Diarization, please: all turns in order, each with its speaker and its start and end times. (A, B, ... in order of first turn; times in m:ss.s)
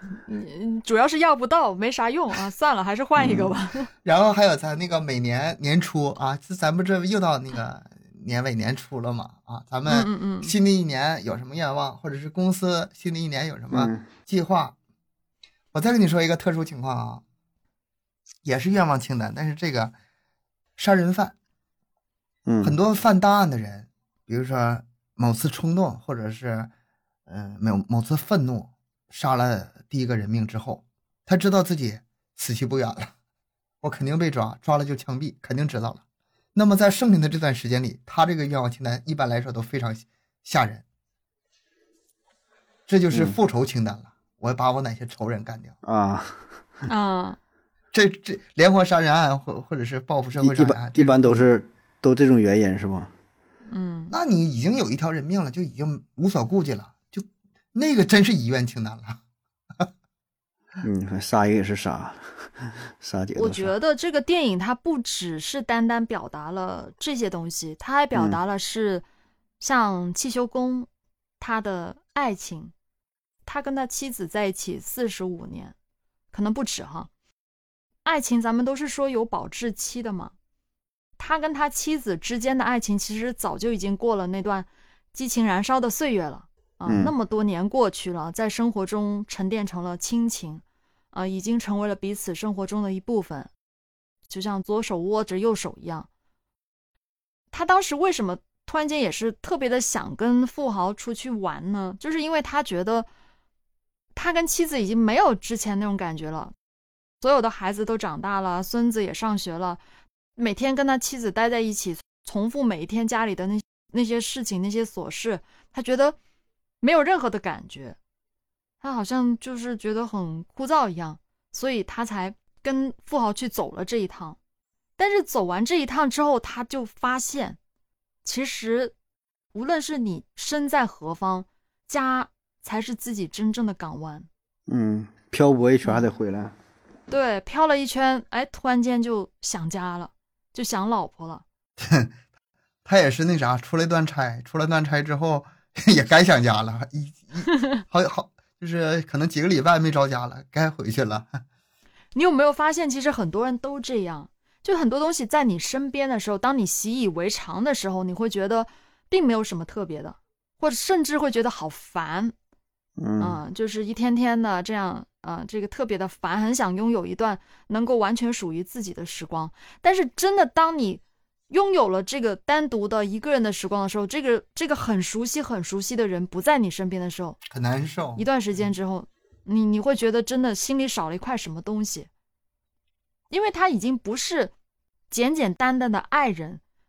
0:00.3-0:03.9 A
0:03.2-0:03.6 B
0:04.0-0:14.8 C
0:09.9-0:10.5 A
0:13.7-0:14.0 B
0:15.7-0:17.2 C
0:18.4-0:19.9 C
0:20.8-0:21.4 C
0:22.5-0:22.8 B
0:22.6-0:26.7 C
0:27.3-0:33.1 C
0:33.8-0:36.0 C
0:36.6-0:40.8 C
0:42.9-0:45.7 C
0:45.8-0:46.4 B
0:46.9-0:47.4 A
0:47.9-0:51.4 C
0:50.4-0:53.1 B
0:53.7-0:54.1 A
0:54.1-0:59.2 C
1:00.8-1:03.7 B
1:03.4-1:09.0 A
1:08.1-1:08.4 B
1:09.6-1:10.9 A
1:11.4-1:12.7 A
1:13.5-1:15.7 A
1:16.3-1:17.1 A
1:18.0-1:20.3 A
1:21.2-1:33.5 A
1:26.9-1:27.1 B
1:34.3-1:36.1 A
1:37.5-1:43.1 A
1:44.2-1:46.5 A
1:47.2-1:49.8 A
1:50.4-1:56.2 A
1:56.8-1:58.0 A
1:58.8-2:04.4 A
2:05.0-2:07.6 A
2:08.2-2:08.9 A
2:09.5-2:14.3 A
2:14.7-2:16.5 B
2:17.1-2:21.4 A
2:21.8-2:22.1 C
2:22.8-2:31.4 C
2:32.1-2:42.3 A
2:43.0-2:43.4 B
2:43.2-2:57.4 A
2:57.5-2:58.3 C
2:58.2-3:02.1 A
3:03.3-3:04.5 A
3:05.1-3:06.6 A